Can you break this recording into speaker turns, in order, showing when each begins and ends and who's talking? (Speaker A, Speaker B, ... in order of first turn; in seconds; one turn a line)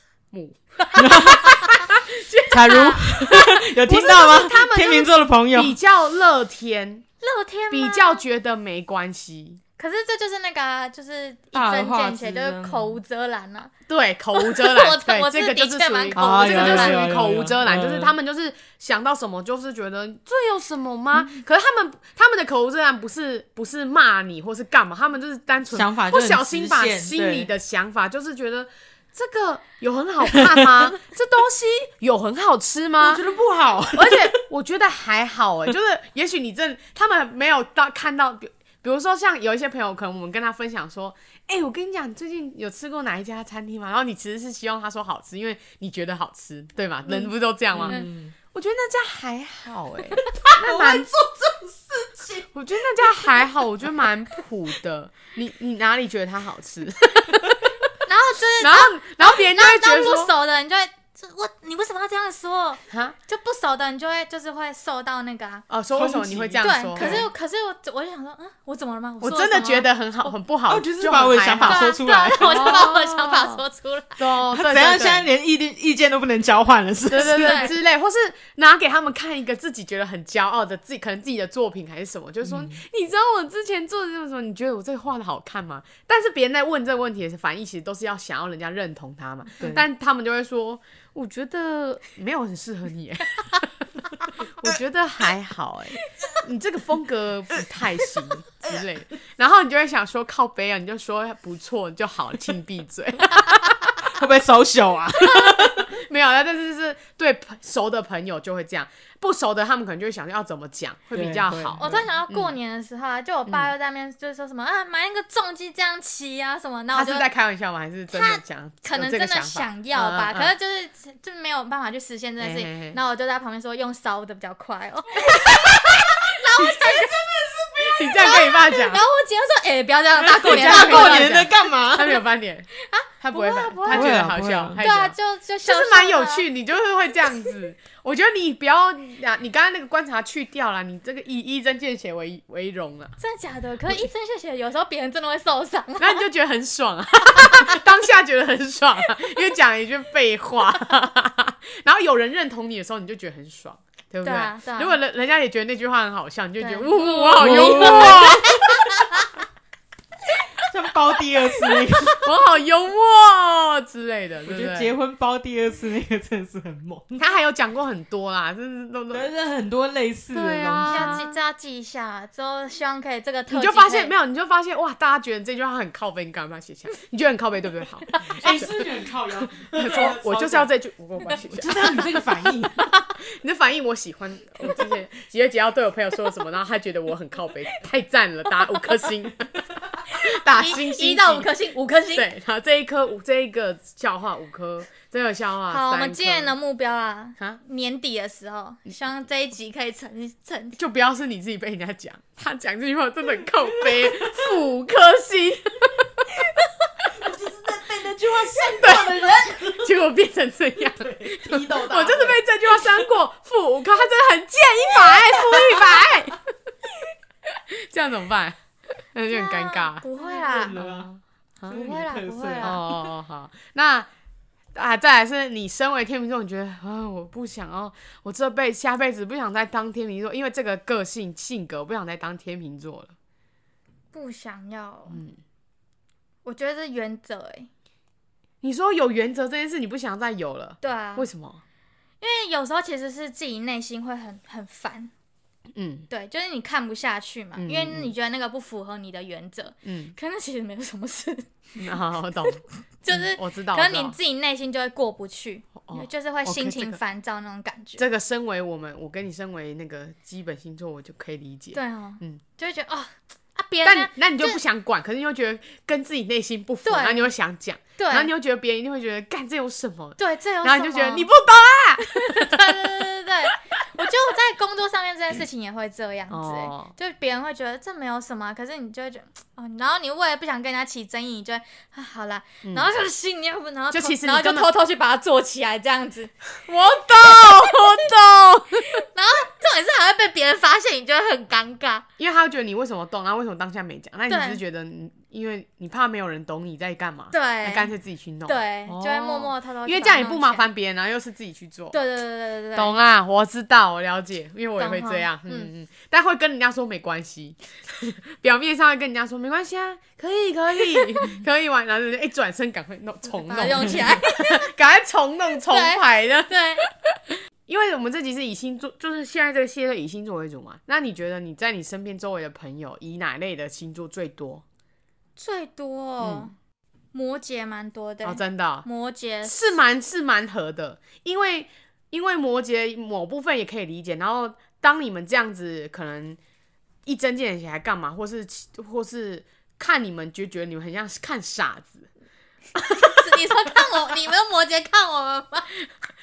Speaker A: 0.3-7.1
Speaker B: 1.0-1.5
Speaker B: 2.5-5.8
Speaker C: 2.7-3.0
Speaker C: 7.2-8.2
Speaker A: 7.7-9.6
Speaker C: 9.8-13.7
Speaker B: 11.5-13.0
Speaker A: 13.9-33.3
Speaker C: 14.3-17.0
Speaker B: 16.1-18.1
Speaker B: 25.7-27.5
Speaker B: 33.0-34.4
Speaker A: 33.9-51.1
Speaker B: 47.7-48.3
Speaker B: 50.2-53.3
Speaker A: 52.5-57.8
Speaker C: 58.0-65.6
Speaker A: 58.6-60.3
Speaker A: 62.9-63.1
Speaker A: 65.7-67.3
Speaker B: 65.9-67.2
Speaker C: 66.6-69.9
Speaker A: 69.2-73.6
Speaker B: 70.7-72.9
Speaker C: 71.7-74.2
Speaker A: 74.2-75.3
Speaker B: 74.5-77.7
Speaker A: 77.1-93.7
Speaker C: 77.2-77.7
Speaker B: 82.5-82.8
Speaker B: 89.6-89.8
Speaker A: 94.4-103.9
Speaker B: 104.0-105.9
Speaker A: 105.2-112.5
Speaker B: 111.1-112.0
Speaker C: 111.8-117.3
Speaker A: 113.5-113.7
Speaker A: 116.9-120.5
Speaker C: 118.1-127.2
Speaker A: 122.4-123.0
Speaker A: 125.3-126.0
Speaker A: 126.6-127.1
Speaker B: 127.3-127.7
Speaker A: 127.8-129.0
Speaker C: 128.0-131.5
Speaker B: 130.2-132.2
Speaker A: 130.4-132.7
Speaker C: 132.8-134.2
Speaker A: 133.2-143.2
Speaker B: 133.9-134.8
Speaker C: 134.8-136.5
Speaker C: 143.2-146.2
Speaker A: 146.0-159.0
Speaker C: 147.4-147.7
Speaker C: 154.2-155.0
Speaker C: 156.6-159.2
Speaker B: 157.4-158.4
Speaker B: 160.6-162.3
Speaker A: 162.2-164.9
Speaker B: 164.5-167.2
Speaker A: 167.2-169.3
Speaker B: 169.1-171.3
Speaker A: 170.3-171.3
Speaker C: 170.8-174.1
Speaker A: 173.5-182.2
Speaker B: 178.2-180.7
Speaker B: 181.4-182.8
Speaker A: 183.0-191.5
Speaker C: 190.1-192.3
Speaker A: 192.1-196.6
Speaker C: 195.7-200.8
Speaker A: 200.8-206.3
Speaker B: 203.9-204.3
Speaker B: 207.1-210.0
Speaker A: 208.6-216.4
Speaker B: 210.9-212.9
Speaker A: 217.5-218.6
Speaker A: 219.1-220.1
Speaker C: 219.3-220.8
Speaker B: 220.2-221.1
Speaker A: 220.8-221.8
Speaker B: 221.6-222.8
Speaker C: 221.7-222.9
Speaker A: 222.6-224.1
Speaker A: 224.7-233.1
Speaker C: 234.1-235.2
Speaker A: 235.1-235.4
Speaker C: 236.4-237.7
Speaker A: 238.6-241.6
Speaker C: 240.8-241.3
Speaker C: 242.2-245.1
Speaker A: 245.8-246.1
Speaker C: 246.1-251.5
Speaker A: 247.6-248.1
Speaker A: 249.8-250.1
Speaker A: 251.8-254.2
Speaker C: 253.0-258.0
Speaker A: 255.8-257.0
Speaker A: 258.0-262.4
Speaker C: 261.7-264.6
Speaker A: 263.8-272.9
Speaker C: 266.8-267.3
Speaker C: 268.0-268.3
Speaker C: 270.2-271.3
Speaker C: 272.1-286.4
Speaker A: 276.3-276.9
Speaker A: 283.9-284.7
Speaker A: 286.6-289.1
Speaker C: 286.9-287.8
Speaker C: 289.0-292.1
Speaker A: 292.2-302.0
Speaker C: 294.3-294.6
Speaker C: 297.3-297.9
Speaker C: 298.5-300.6
Speaker C: 301.9-303.0
Speaker A: 302.8-316.9
Speaker C: 304.8-305.7
Speaker C: 313.3-314.7
Speaker C: 315.7-316.9
Speaker A: 317.6-324.6
Speaker C: 325.4-326.5
Speaker A: 326.2-326.5
Speaker C: 327.1-329.7
Speaker A: 328.2-328.9
Speaker A: 329.4-336.4
Speaker A: 337.1-342.1
Speaker A: 342.8-343.8
Speaker C: 342.9-345.7